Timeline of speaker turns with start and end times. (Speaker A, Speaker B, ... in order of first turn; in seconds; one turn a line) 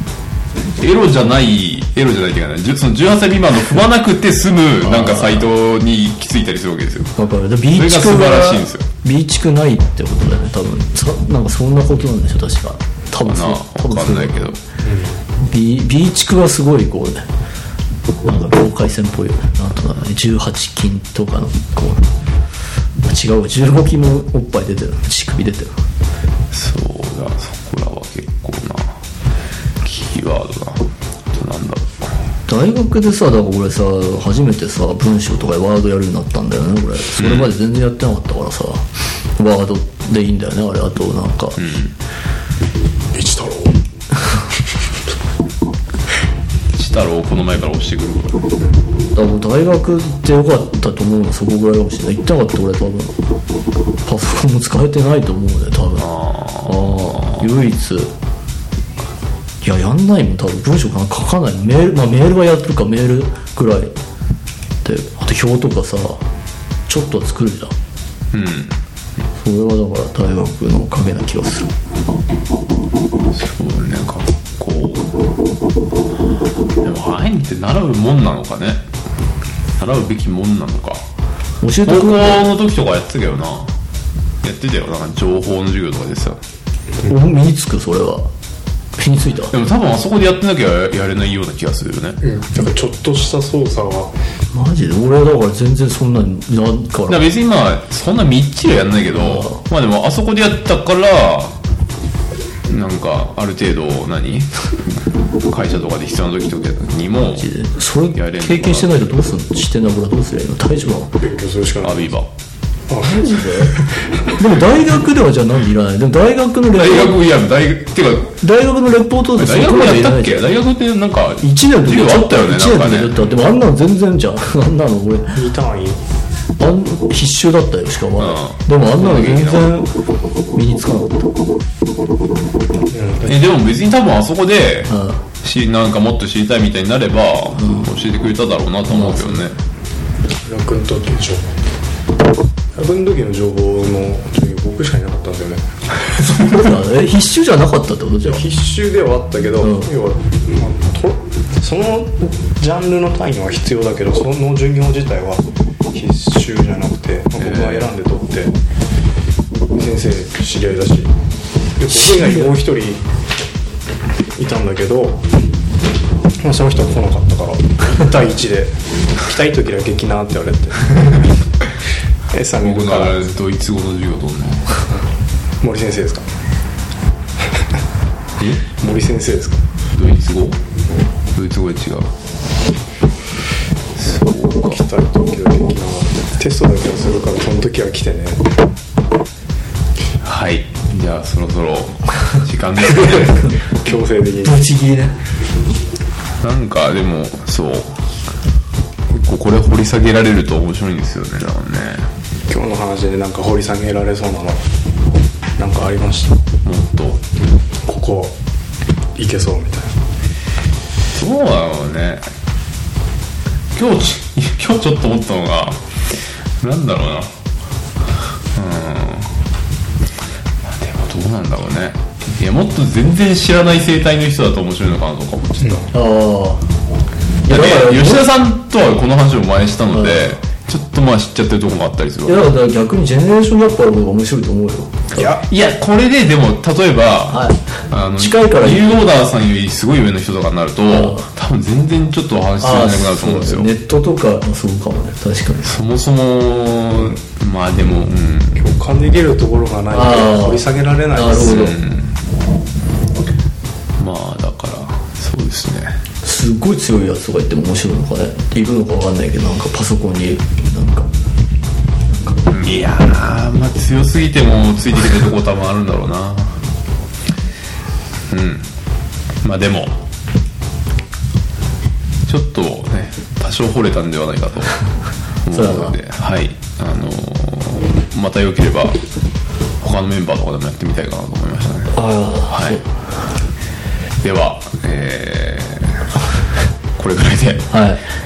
Speaker A: 0.8-7.1
Speaker B: 4.8-5.5
Speaker B: 7.2-14.5
Speaker A: 7.7-8.9
Speaker A: 13.2-14.6
Speaker C: 14.8-15.2
Speaker B: 15.4-17.2
Speaker B: 18.2-22.1
Speaker B: 23.0-25.7
Speaker A: 26.5-29.0
Speaker A: 29.8-32.2
Speaker B: 32.5-41.8
Speaker A: 37.2-37.5
Speaker A: 41.6-41.9
Speaker C: 43.1-43.8
Speaker A: 46.7-48.5
Speaker B: 49.1-53.2
Speaker B: 54.0-58.1
Speaker A: 56.0-57.5
Speaker B: 59.6-63.9
Speaker B: 64.8-66.2
Speaker B: 66.9-67.7
Speaker A: 68.3-68.8
Speaker B: 69.3-71.7
Speaker A: 73.3-75.1
Speaker A: 76.8-78.8
Speaker A: 79.8-81.0
Speaker B: 81.6-82.6
Speaker A: 81.8-83.7
Speaker A: 84.4-86.4
Speaker B: 87.0-88.3
Speaker B: 89.0-89.5
Speaker A: 89.5-92.2
Speaker C: 92.2-94.1
Speaker B: 94.5-97.3
Speaker A: 97.1-101.6
Speaker B: 99.1-99.6
Speaker A: 102.7-104.7
Speaker A: 105.5-107.5
Speaker B: 107.1-111.1
Speaker A: 108.1-109.0
Speaker C: 111.2-112.1
Speaker A: 111.8-112.3
Speaker C: 112.9-113.6
Speaker B: 113.0-113.8
Speaker B: 114.4-117.2
Speaker A: 116.7-118.4
Speaker B: 118.4-120.5
Speaker A: 119.3-123.4
Speaker B: 121.4-125.4
Speaker C: 125.3-126.0
Speaker B: 126.6-130.0
Speaker A: 128.2-129.7
Speaker B: 130.5-131.3
Speaker C: 132.9-133.5
Speaker A: 133.2-139.6
Speaker B: 134.9-135.2
Speaker B: 137.6-137.9
Speaker B: 138.9-139.5
Speaker C: 140.4-141.6
Speaker C: 142.7-145.7
Speaker B: 146.2-148.4
Speaker C: 148.2-158.5
Speaker B: 149.6-149.9
Speaker A: 157.4-157.9
Speaker C: 159.7-161.1
Speaker C: 161.8-163.0
Speaker B: 161.9-162.5
Speaker C: 164.3-165.2
Speaker C: 166.4-171.3
Speaker C: 172.3-173.3
Speaker A: 172.6-174.8
Speaker C: 175.6-176.2
Speaker A: 178.4-178.7
Speaker C: 178.8-179.6
Speaker A: 179.9-180.6
Speaker A: 181.3-182.1
Speaker A: 183.9-184.8
Speaker C: 184.6-188.4
Speaker A: 190.2-193.5
Speaker C: 192.8-194.6
Speaker B: 194.4-195.2
Speaker A: 196.4-198.0
Speaker A: 199.1-202.1
Speaker C: 202.5-204.6
Speaker C: 205.6-206.4
Speaker A: 206.6-207.2
Speaker C: 207.8-208.3
Speaker C: 209.1-209.9
Speaker A: 211.1-212.2
Speaker A: 213.7-215.9
Speaker A: 216.6-217.3
Speaker A: 218.5-219.3
Speaker A: 220.6-225.9
Speaker C: 225.6-225.9
Speaker B: 225.9-226.6
Speaker B: 227.4-228.3
Speaker A: 227.4-232.4
Speaker B: 229.9-230.4
Speaker B: 232.2-235.2
Speaker A: 235.1-243.7
Speaker B: 237.3-239.0
Speaker B: 240.9-241.3
Speaker B: 242.6-245.7
Speaker A: 245.6-248.6
Speaker C: 248.5-251.6
Speaker B: 249.9-251.8
Speaker A: 251.3-252.2
Speaker A: 254.0-256.0
Speaker B: 256.2-261.1
Speaker A: 262.5-266.6
Speaker A: 268.3-268.7
Speaker A: 269.4-269.9
Speaker A: 272.3-274.8
Speaker A: 275.4-279.0
Speaker B: 275.5-276.0
Speaker A: 279.8-282.0
Speaker B: 281.9-282.9
Speaker A: 282.5-282.8
Speaker A: 284.2-286.1
Speaker A: 287.0-287.7
Speaker B: 287.7-288.0